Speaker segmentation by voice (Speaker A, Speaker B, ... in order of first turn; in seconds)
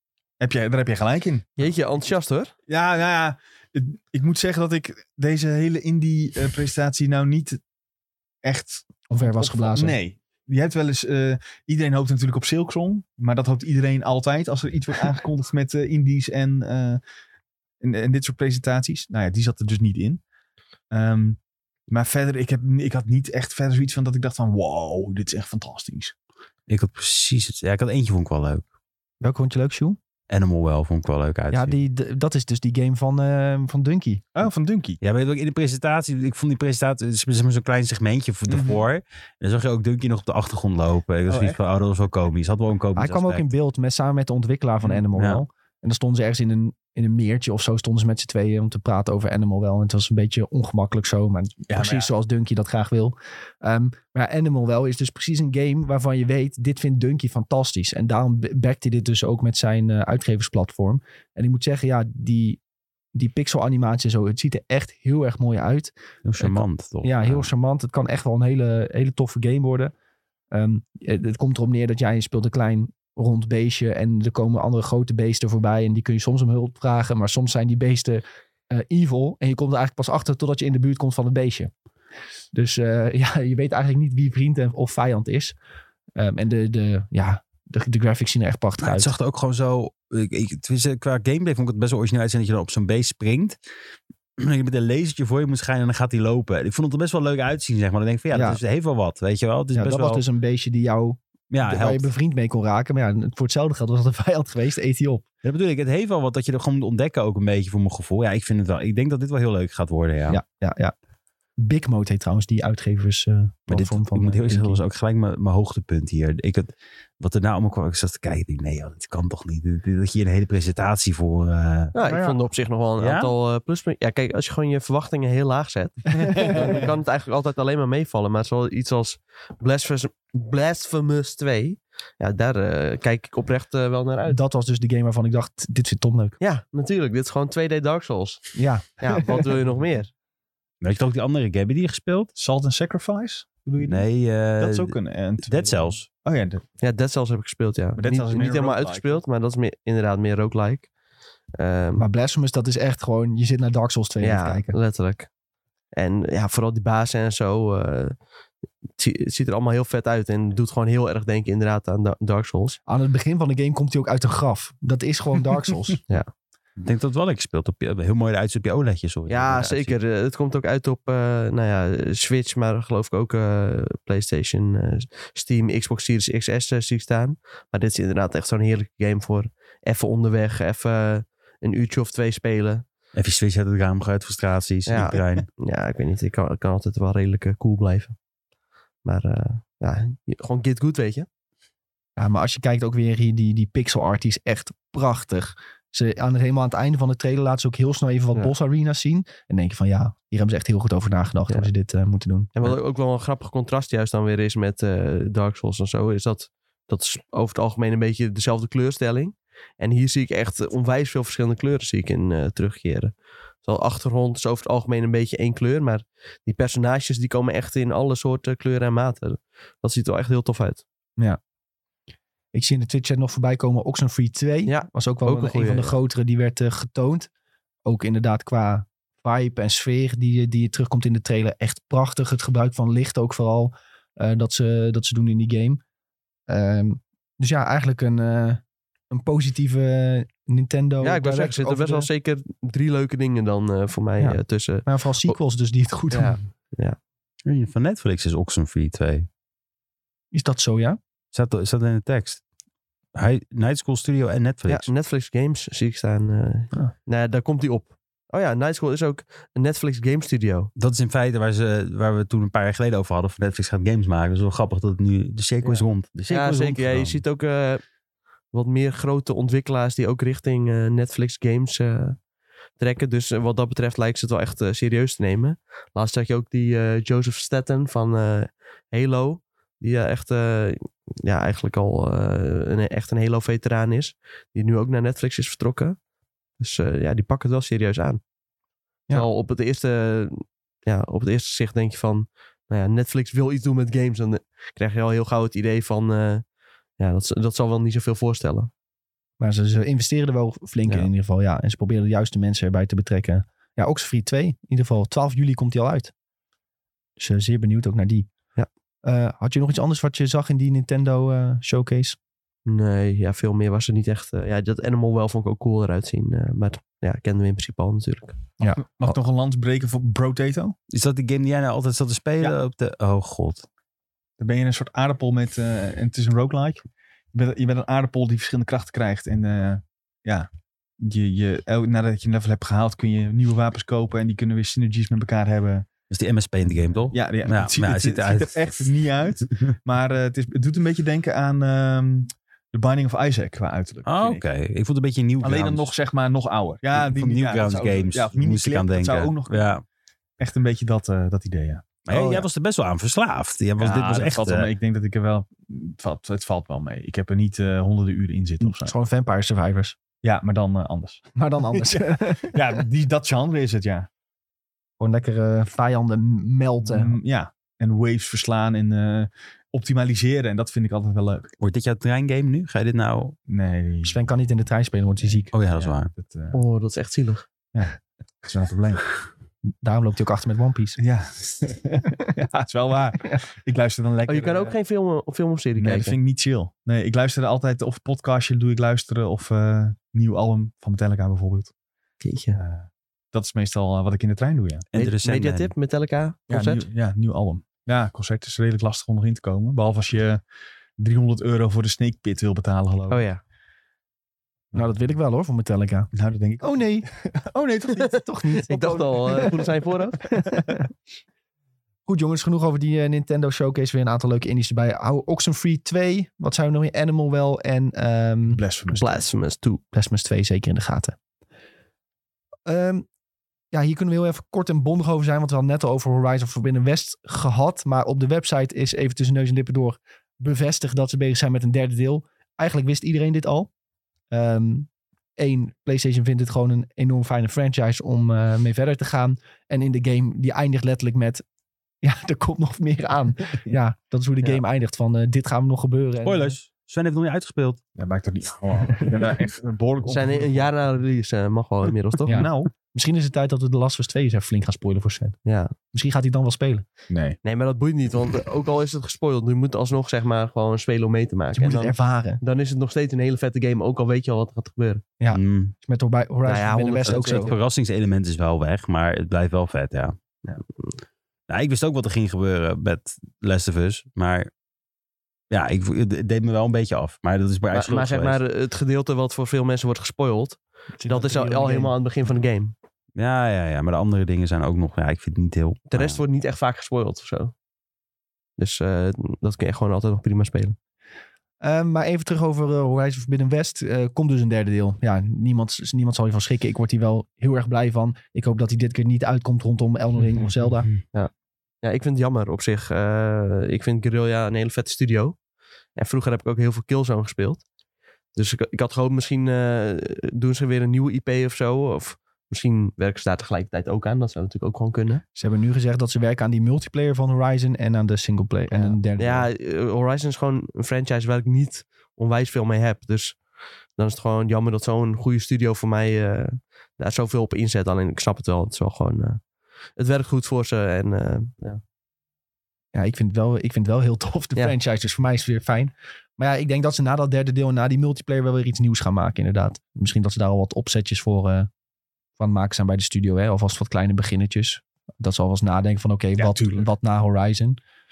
Speaker A: 0.4-1.7, 2.7-7.6, 8.4-17.0, 17.8-20.2, 20.9-26.1, 34.3-35.0, 38.5-38.8, 41.3-41.6, 51.7-52.1, 126.4-126.8, 142.3-144.1, 144.6-146.6, 148.0-149.2, 318.8-320.8, 324.4-335.9, 337.0-344.4, 345.4-349.8, 350.4-352.4, 353.8-358.9, 360.2-364.1, 366.8-371.5, 373.5-374.2, 375.2-376.6, 377.7-379.1, 381.0-384.7, 385.8-391.7, 392.5-394.8, 396.5-400.4, 401.0-403.2, 406.1-408.3, 418.5-419.2, 447.9-450.7, 452.3-452.7, 457.1-457.4, 546.4-546.9
Speaker B: 1.6-2.5, 121.9-134.4, 136.4-140.1, 146.8-150.9, 151.6-152.1, 154.2-155.3, 155.9-158.2, 159.0-162.8, 169.3-182.8, 184.9-188.2, 189.0-191.3, 202.6-220.8, 224.7-225.9, 241.0-245.4, 246.1-247.0, 254.7-260.7, 265.6-267.8, 268.5-272.2, 272.8-286.0, 286.6-288.2, 289.1-296.4, 297.0-298.7, 312.6-318.4, 376.5-377.4, 384.3-386.2, 392.2-392.6, 394.9-396.9, 403.1-403.4, 408.7-410.2, 418.9-419.8, 450.1-452.4, 455.4-455.7, 457.4-465.0, 466.4-467.6, 477.7-482.7, 485.9-487.5, 488.6-490.8, 501.8-505.4, 505.9-507.6, 508.3-515.2, 518.7-523.4, 524.0-529.4, 530.0-531.8
Speaker C: 9.1-10.0, 29.2-30.0, 31.5-34.2, 43.0-62.6, 63.1-69.9, 70.5-81.7, 82.5-85.5, 86.2-89.1, 98.3-98.6, 99.7-105.2, 110.3-110.9, 111.6-114.8, 122.0-122.4, 126.2-126.5, 134.3-136.4, 138.6-139.4, 152.0-154.8, 162.9-166.0, 192.2-202.7, 222.5-227.3, 227.8-235.8, 236.5-242.1, 244.2-246.4, 250.3-251.0, 299.4-306.1, 307.2-308.3, 309.0-312.2, 318.6-318.9, 352.1-352.4, 358.6-360.0, 361.4-362.6, 365.0-367.1, 374.0-375.5, 379.8-381.0, 404.7-407.1, 408.2-409.6, 410.2-410.8, 412.1-418.6, 419.9-421.1, 422.6-423.1, 423.7-433.7, 434.3-441.4, 442.0-446.5, 452.2-455.4, 455.9-456.8, 461.5-462.4, 465.2-467.5, 481.0-481.9, 491.6-500.9, 515.4-519.5, 532.9-541.7, 542.4-547.8
Speaker D: 26.7-28.6, 30.3-31.8, 35.0-43.5, 45.1-45.4, 66.2-67.5, 88.8-93.6, 94.4-100.2, 101.5-102.1, 105.4-110.4, 113.7-121.9, 123.0-123.3, 140.8-142.3, 143.8-146.1, 166.8-169.9, 183.2-185.5, 247.4-249.3, 251.3-252.4, 253.1-254.9, 260.8-267.2, 320.9-323.6, 336.1-338.9, 344.0-345.9, 346.9-349.8, 352.1-354.7, 371.6-373.4, 375.5-376.1, 394.9-395.7, 446.2-447.8, 465.3-465.7, 467.1-470.2, 471.5-474.5, 475.5-478.4, 483.1-486.2